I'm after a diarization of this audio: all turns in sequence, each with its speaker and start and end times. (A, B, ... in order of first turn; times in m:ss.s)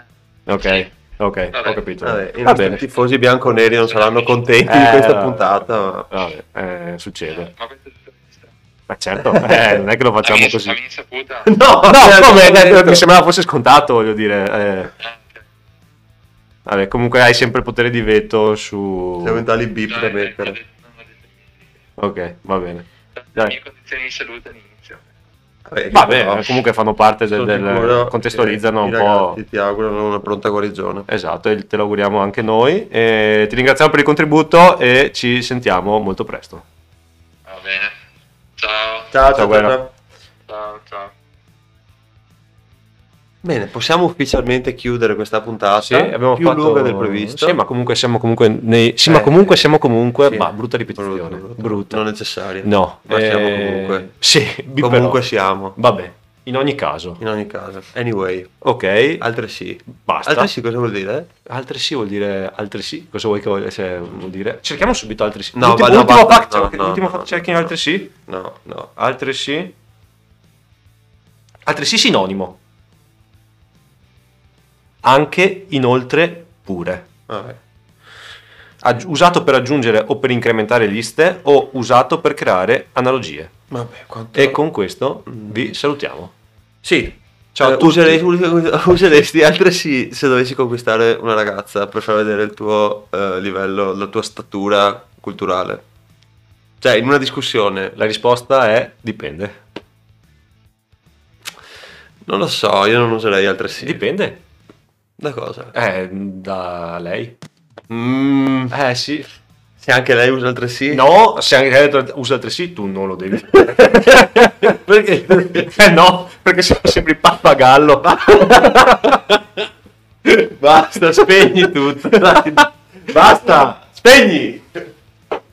0:00.5-0:02.8 A
0:00.6-0:00.9 B
0:01.5-0:01.8 B
0:02.0-0:06.1 C
0:03.9-0:04.3 B
0:04.7-0:07.5 A
0:07.3-0:08.5 B
0:08.9-0:10.8 A
0:09.3-0:09.7 C
0:10.2-0:11.5 B
0:11.5-0:13.0 C
0:11.9-0:14.9 A
0:15.0-0:15.4 B
0:16.7-0:19.4 A
0:19.2-0:20.6 C
0:19.9-0:21.4 B
0:22.0-0:22.8 A
0:23.2-0:25.1 B
0:25.7-0:26.6 C
0:25.9-0:29.4 A
0:27.3-0:31.1 C
0:31.1-0:36.6 A
0:37.5-0:38.0 B
0:38.6-0:39.1 B
0:39.1-0:39.9 C
0:39.3-0:39.8 A
0:40.5-0:41.1 B
0:43.4-0:47.6 C
0:45.8-0:52.0 A
0:49.0-0:54.1 C
0:52.6-0:55.2 A
0:54.8-0:55.8 C
0:55.7-0:57.2 A
0:57.2-0:58.6 C
0:58.6-0:59.2 A
0:59.2-1:01.3 C
1:00.0-1:00.5 A
1:01.5-1:08.1 A
1:05.6-1:08.9 C
1:09.0-1:09.7 A
1:11.7-1:12.6 A
1:15.0-1:17.1 A
1:17.3-1:17.6 C
1:18.8-1:23.5 A
1:23.7-1:24.6 C
1:24.3-1:26.3 A
1:26.8-1:35.8 C
1:27.6-1:28.2 A
1:36.8-1:38.0 C
1:38.0-1:39.6 A
1:42.2-1:44.0 C
1:43.8-1:44.4 A
1:45.2-1:45.7 C
1:45.7-1:47.4 A
1:47.9-1:48.8 C
1:48.7-1:49.3 A
1:49.8-1:51.0 C
1:50.9-1:54.8 A
1:53.5-1:55.7 C
1:55.4-1:58.8 A
1:58.1-1:59.6 C
2:00.2-2:04.8 C